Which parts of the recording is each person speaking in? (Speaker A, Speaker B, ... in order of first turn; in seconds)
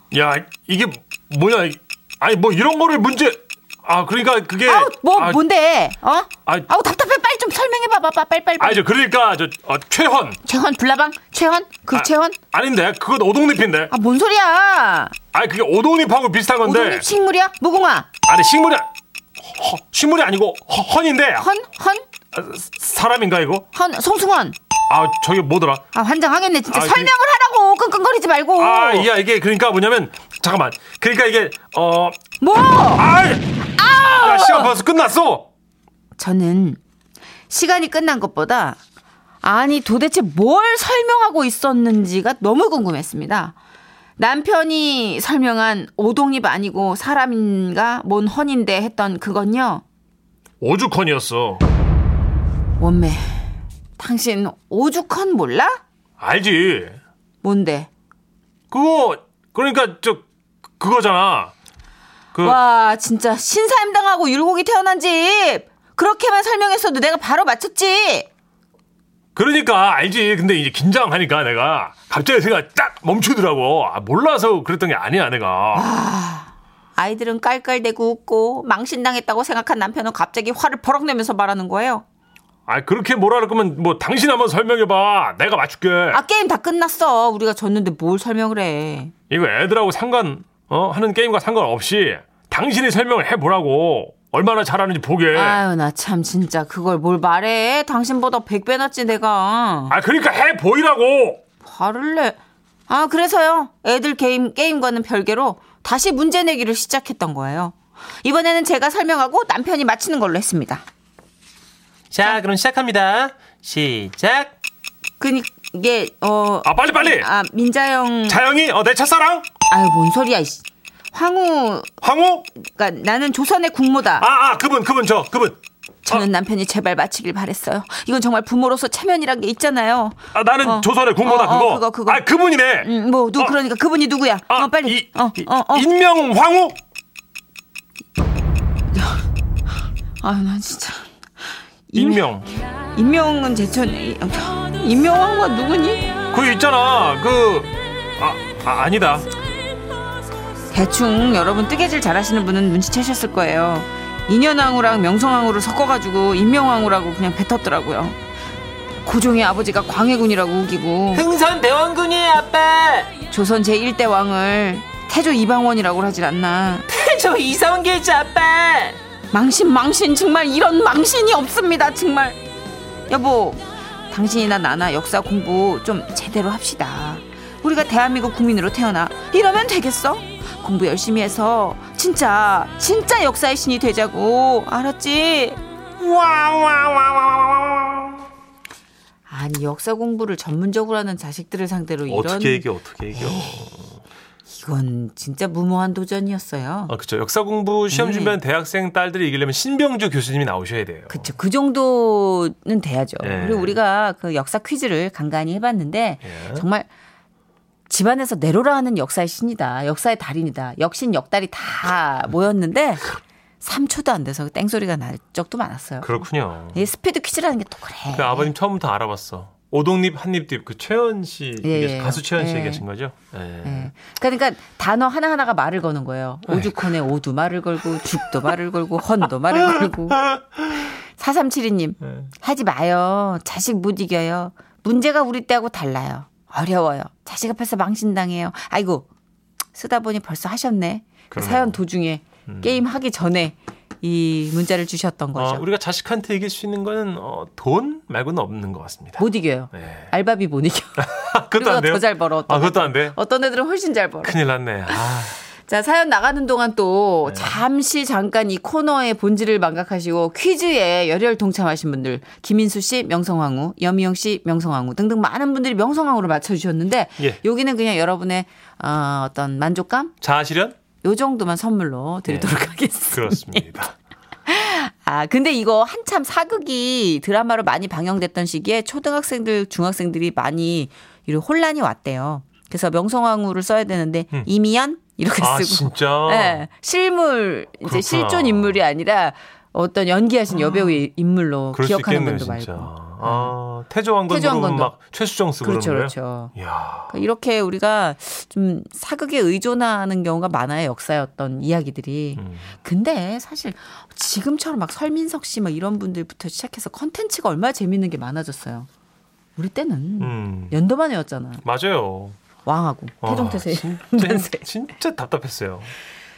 Speaker A: 0.1-5.4, 8.6-10.4, 11.9-13.9, 15.3-17.1, 18.3-18.9, 19.4-21.5, 22.3-23.7, 24.9-25.8, 26.7-27.1, 28.6-32.2, 32.9-35.5, 50.6-51.6, 56.2-57.0, 58.7-60.3, 60.8-61.5, 62.3-62.6, 69.4-75.9, 82.7-86.2, 89.3-95.6, 99.9-101.4, 112.1-114.5, 116.6-117.3, 118.3-119.5, 122.0-122.5, 124.2-126.3, 130.3-133.6, 134.5-136.8, 141.9-142.6, 146.3-149.3, 186.0-188.2, 192.1-193.9, 196.9-201.3, 203.2-203.8, 206.2-206.7, 216.0-216.8, 218.1-223.9, 226.5-226.8, 229.7-230.4, 241.3-241.8, 242.5-242.8, 245.3-250.1, 251.0-253.2, 254.2-255.4, 257.2-257.6, 270.2-270.8, 272.3-273.9, 285.4-286.6, 287.8-288.8, 291.7-297.2, 302.4-302.7, 310.2-310.8, 311.6-312.4, 313.2-315.9
Speaker B: 4.7-8.8, 10.4-12.4, 13.9-15.2, 16.6-18.1, 21.4-22.0, 23.7-24.6, 25.9-29.1, 32.4-33.1, 33.7-34.8, 36.2-36.8, 37.5-38.8, 39.4-43.6, 44.2-49.8, 52.8-53.5, 54.0-55.8, 57.4-57.9, 62.4-68.3, 75.7-82.0, 86.1-89.1, 95.3-100.0, 101.6-110.8, 115.2-118.4, 119.7-121.9, 122.5-124.3, 126.1-132.2, 132.8-135.9, 138.9-139.2, 140.2-141.1, 141.9-142.3, 142.9-146.2, 150.7-158.2, 159.0-161.3, 163.3-166.9, 169.3-172.4, 173.1-185.6, 189.3-193.7, 194.5-196.9, 197.9-198.4, 201.1-206.9, 207.9-213.1, 213.6-216.2, 216.7-218.5, 221.6-222.8, 223.7-230.2, 230.9-239.1, 239.7-245.6, 249.2-254.3, 254.9-270.1, 271.0-273.6, 274.5-293.5, 294.3-294.9, 295.6-296.5, 297.1-308.9, 309.6-311.6, 312.6-314.6
Speaker C: 113.4-113.7, 161.1-163.1, 166.9-169.0